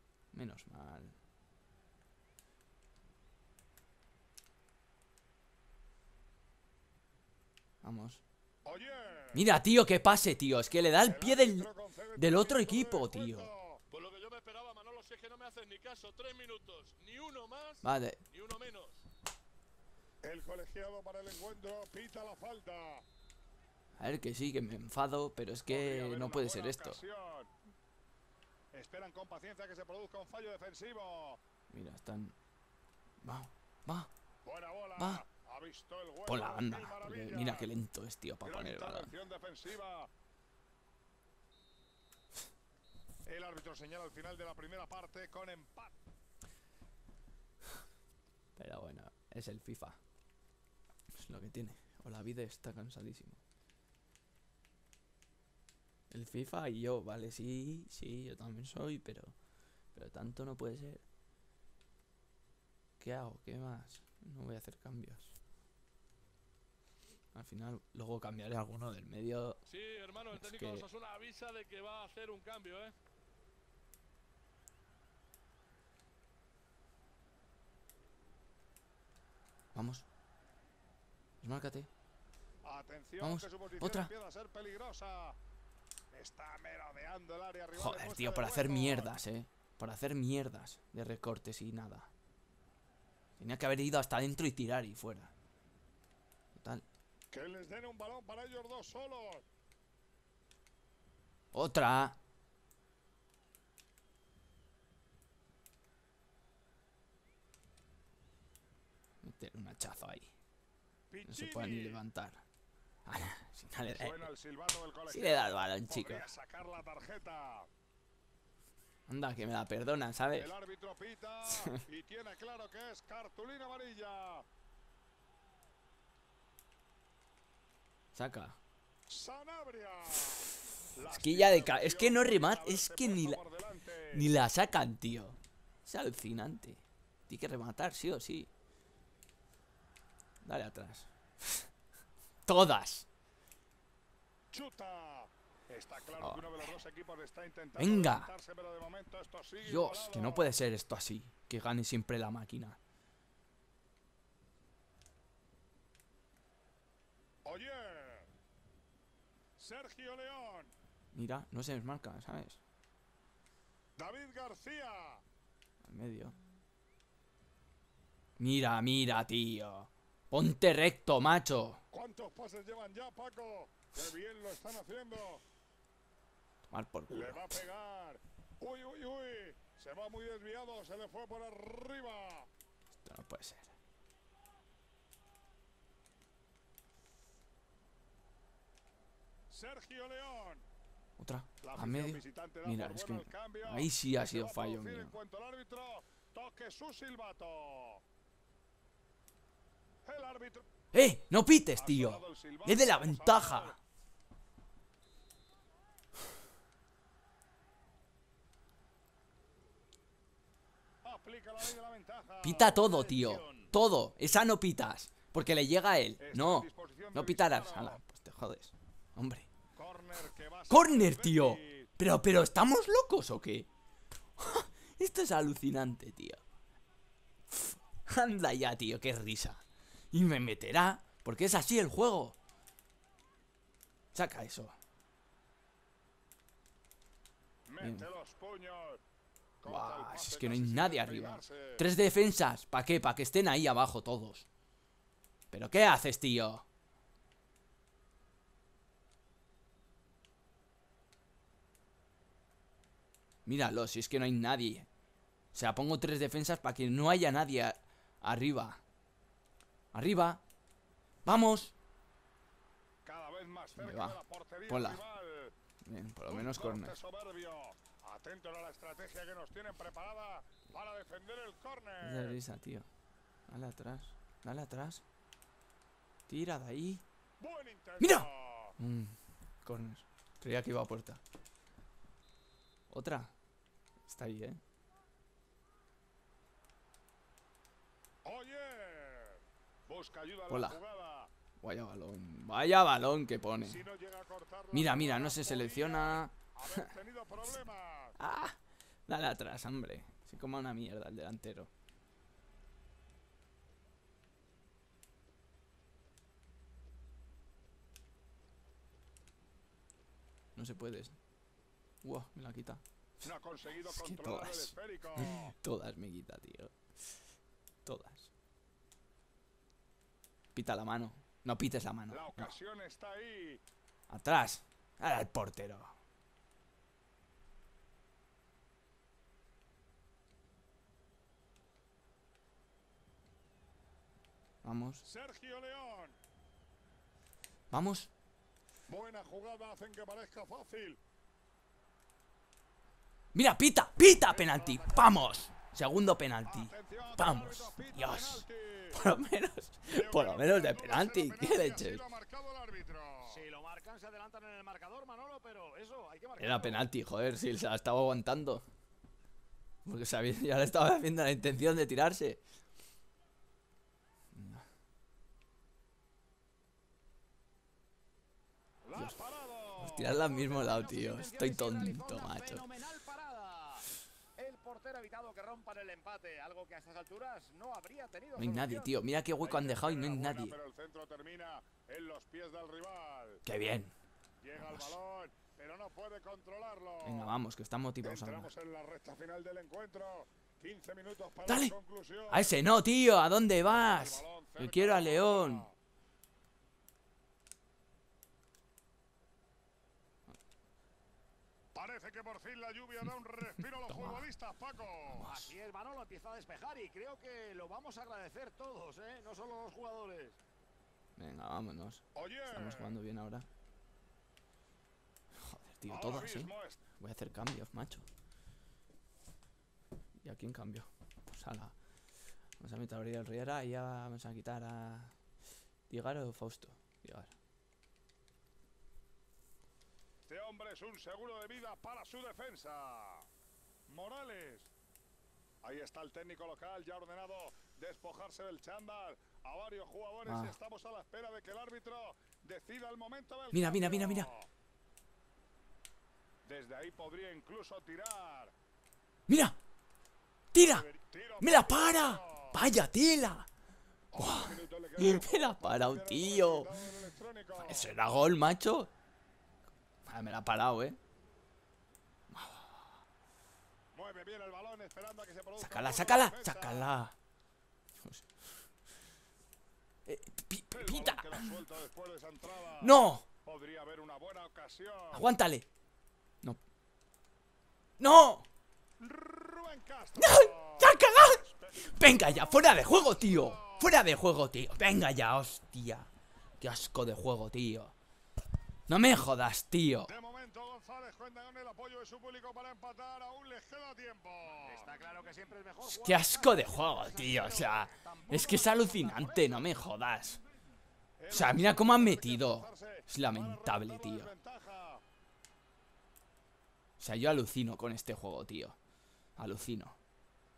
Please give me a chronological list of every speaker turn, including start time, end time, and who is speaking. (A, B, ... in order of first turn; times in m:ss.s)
0:00.3-0:01.2 A
0:07.8-0:08.2 A
0:08.6-0:09.4 B
0:09.3-0:13.5 A
0:11.0-0:13.8 B
0:13.9-0:19.0 C
0:17.8-0:18.2 A
0:20.2-0:23.0 B
0:24.0-0:27.0 A
0:25.7-0:27.5 B
0:28.7-0:31.4 B
0:31.7-0:32.3 A
0:33.2-0:34.1 A
0:34.4-0:37.7 B
0:35.0-0:35.2 A
0:36.2-0:39.1 A
0:38.4-0:40.1 B
0:43.2-0:45.9 B
0:48.6-0:50.0 A
0:51.1-0:53.4 A
0:56.1-0:59.3 A
0:59.9-1:01.0 A
1:03.0-1:05.3 A
1:07.3-1:09.6 A
1:09.7-1:12.9 C
1:10.3-1:10.8 A
1:19.7-1:20.0 A
1:21.4-1:21.9 A
1:22.6-1:25.4 B
1:23.2-1:24.1 A
1:26.1-1:29.1 B
1:27.8-1:32.1 A
1:33.4-1:35.3 A
1:36.5-1:36.8 A
1:37.3-1:39.4 B
1:41.5-1:42.2 A
1:49.2-1:50.3 A
1:51.1-1:52.0 B
1:51.3-1:52.4 A
1:53.0-1:54.2 A
1:53.9-1:57.7 B
1:55.1-1:56.2 A
1:59.1-2:00.5 A
2:00.3-2:04.4 B
2:08.1-2:08.6 A
2:09.1-2:14.3 B
2:10.9-2:13.4 A
2:14.1-2:18.5 A
2:20.4-2:21.7 A
2:22.4-2:23.1 A
2:24.5-2:30.5 B
2:26.2-2:26.7 A
2:27.8-2:28.3 A
2:29.6-2:32.8 A
2:37.4-2:38.3 B
2:39.6-2:40.7 B
2:41.1-2:42.6 A
2:44.0-2:45.2 B
2:45.8-2:46.4 A
2:48.4-2:51.8 A
2:51.9-2:55.4 B
2:56.7-2:57.6 A
2:57.1-3:02.5 B
3:03.0-3:03.7 A
3:09.5-3:10.6 B
3:11.2-3:15.1 A
3:11.6-3:18.0 B
3:20.0-3:20.6 B
3:20.9-3:23.8 A
3:21.7-3:23.8 B
3:31.0-3:33.7 B
3:32.4-3:39.5 A
3:36.2-3:38.0 B
3:39.7-3:41.9 B
3:40.7-3:43.7 A
3:44.4-3:46.4 A
3:47.5-3:52.4 A
3:54.1-3:54.8 A
3:57.7-3:59.0 B
3:57.8-3:58.1 A
3:59.6-4:01.8 B
3:59.6-4:04.5 A
4:05.5-4:06.6 A
4:13.4-4:14.9 A
4:15.5-4:18.8 A
4:19.9-4:20.4 A
4:21.2-4:21.7 A
4:23.0-4:25.5 B
4:23.7-4:25.0 A
4:25.8-4:26.9 A
4:26.3-4:32.4 B
4:32.0-4:32.9 A
4:33.5-4:35.0 A
4:36.3-4:37.0 A
4:37.4-4:38.8 B
4:38.0-4:41.2 A
4:42.9-4:43.3 A
4:44.0-4:44.6 A
4:48.2-4:51.3 B
4:50.5-4:50.8 A
4:51.6-4:53.8 A
4:53.6-4:58.2 B
4:54.7-4:56.4 A
4:58.2-5:01.7 A
5:10.5-5:11.2 A
5:12.0-5:12.8 A
5:13.2-5:15.5 B
5:13.9-5:17.2 A
5:17.8-5:18.3 A
5:20.5-5:22.5 A
5:22.1-5:23.6 B
5:24.1-5:26.0 A
5:34.6-5:35.0 A
5:35.0-5:36.2 B
5:37.7-5:38.1 A
5:38.9-5:41.0 B
5:43.3-5:52.0 A
5:44.3-5:44.9 B
5:46.4-5:49.0 B
5:49.9-5:53.4 B
5:53.2-5:56.9 D
5:56.4-5:58.6 A
5:59.8-6:02.4 A
6:04.3-6:04.6 A
6:08.9-6:10.2 B
6:09.8-6:12.7 A
6:10.2-6:18.9 D
6:18.4-6:20.5 A
6:19.4-6:23.4 B
6:23.4-6:23.9 A
6:24.4-6:27.3 B
6:24.5-6:25.0 A
6:27.0-6:28.5 A
6:28.0-6:32.5 B
6:31.4-6:31.7 A
6:32.3-6:35.7 A
6:33.7-6:35.7 B
6:41.7-6:45.3 B
6:43.9-6:44.2 A
6:45.1-6:45.5 A
6:45.2-6:50.4 D
6:51.2-6:53.5 A
6:52.1-6:53.0 B
6:55.3-6:58.0 A
6:55.9-6:56.8 B
7:00.2-7:01.7 A
7:02.6-7:05.2 A
7:05.9-7:07.3 A
7:10.3-7:13.3 B
7:13.9-7:14.7 B
7:15.6-7:24.5 B
7:20.2-7:20.5 A
7:23.5-7:24.3 A
7:26.4-7:28.5 B
7:29.3-7:29.6 A
7:30.5-7:30.9 A
7:30.5-7:32.6 B
7:31.4-7:33.5 A
7:34.1-7:37.9 B
7:34.2-7:36.7 A
7:37.6-7:38.9 A
7:40.0-7:41.0 A
7:42.3-7:42.8 A
7:43.9-7:46.9 B
7:45.6-7:47.2 A
7:50.0-7:51.6 A
7:50.7-7:55.3 B
7:52.8-7:53.2 A
7:55.1-7:55.7 A
7:58.0-7:58.5 A
7:59.0-8:04.0 B
8:00.2-8:06.1 A
8:06.6-8:07.9 A
8:08.9-8:10.1 A
8:10.0-8:14.9 B
8:14.6-8:19.7 D
8:15.8-8:20.4 A
8:21.2-8:25.0 B
8:21.3-8:24.3 A
8:27.0-8:28.8 A
8:29.4-8:30.0 A